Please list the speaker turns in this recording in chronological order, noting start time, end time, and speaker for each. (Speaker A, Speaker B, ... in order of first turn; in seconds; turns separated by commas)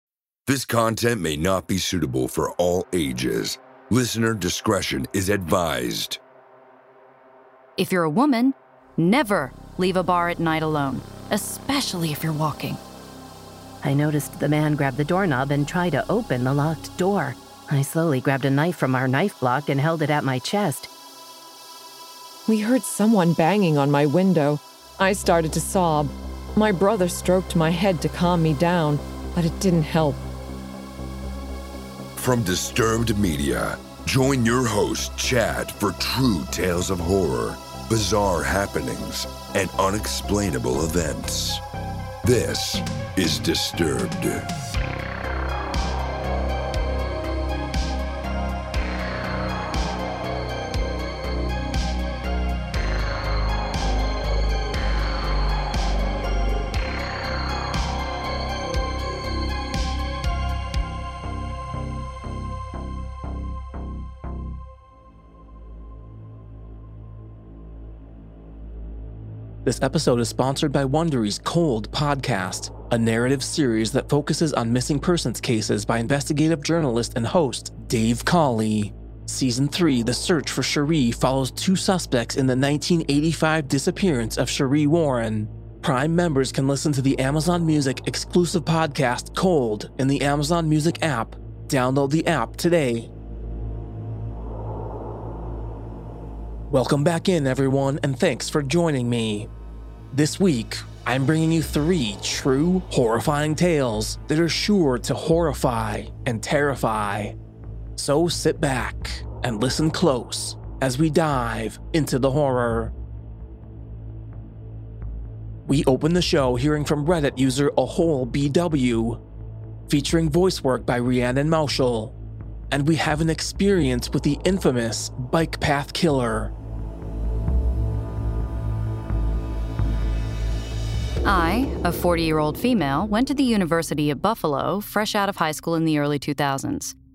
Speaker A: 0.5-6.2, Speaker B: 7.8-12.8, Speaker C: 13.8-20.9, Speaker D: 22.5-30.2, Speaker A: 32.2-41.6, Speaker A: 42.2-44.4, Speaker E: 69.6-93.1, Speaker E: 96.7-99.5, Speaker E: 100.1-107.3, Speaker E: 108.0-112.9, Speaker E: 115.7-119.2, Speaker E: 119.9-122.1, Speaker E: 122.7-126.5, Speaker B: 131.2-136.9